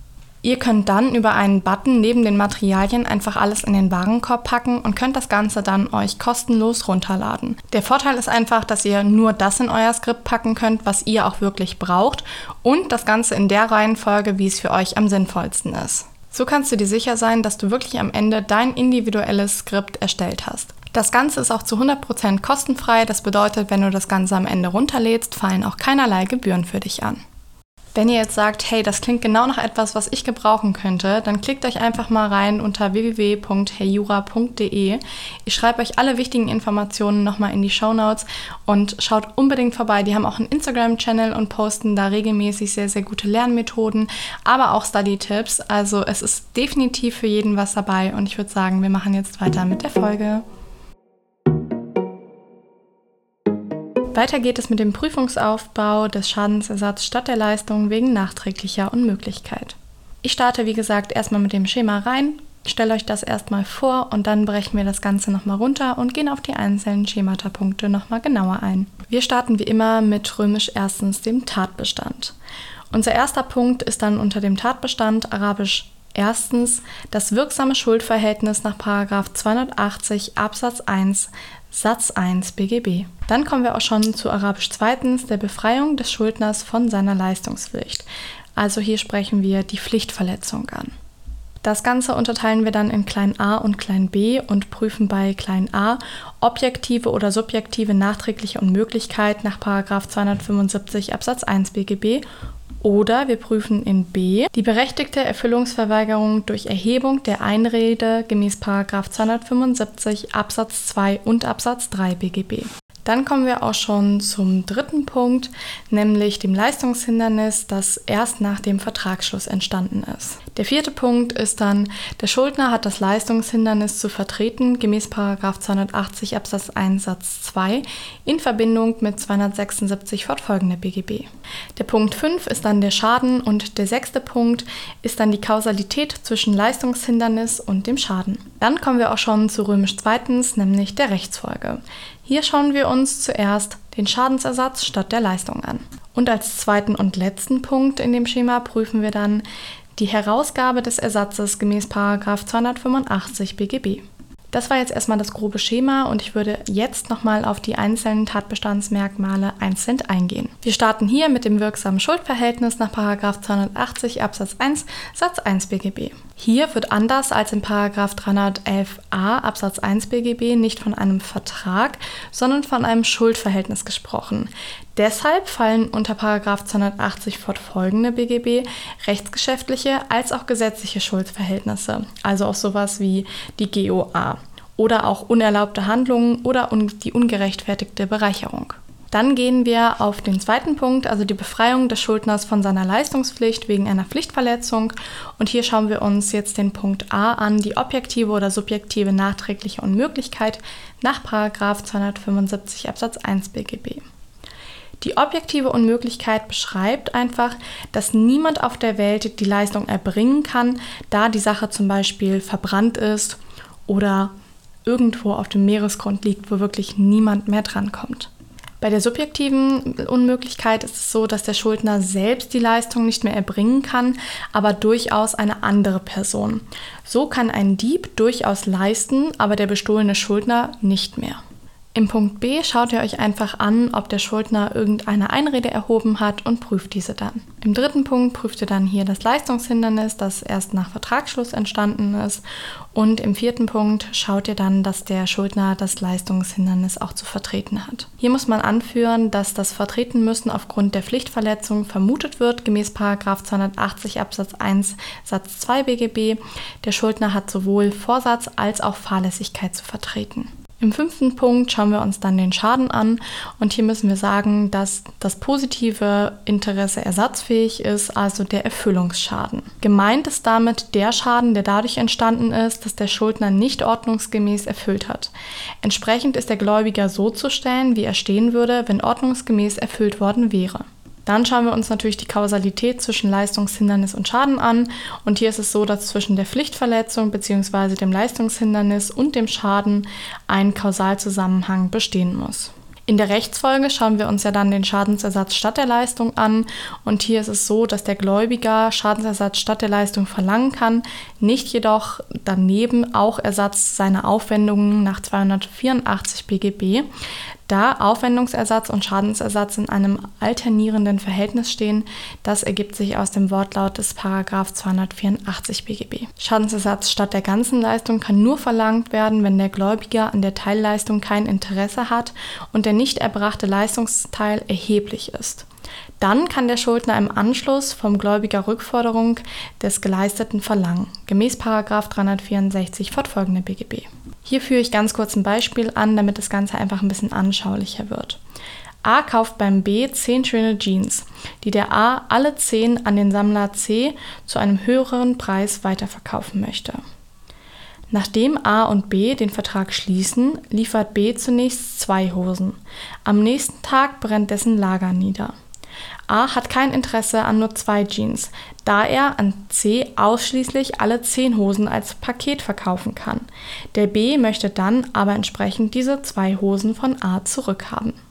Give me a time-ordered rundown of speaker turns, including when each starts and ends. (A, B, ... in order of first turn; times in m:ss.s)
0:00.4-0:27.2 A
0:28.0-0:50.4 A
0:54.1-1:12.4 A
1:12.9-1:30.9 A
1:31.6-1:42.2 A
1:42.8-2:29.4 A
2:30.0-3:24.0 A
3:25.0-3:34.3 A
3:34.9-3:38.3 A
3:38.8-3:51.4 A
3:52.0-4:02.4 A
4:02.9-5:07.1 A
5:07.7-5:25.7 A
5:26.2-5:38.4 A
5:39.0-5:47.0 A
5:48.1-5:55.5 A
5:56.3-6:08.2 A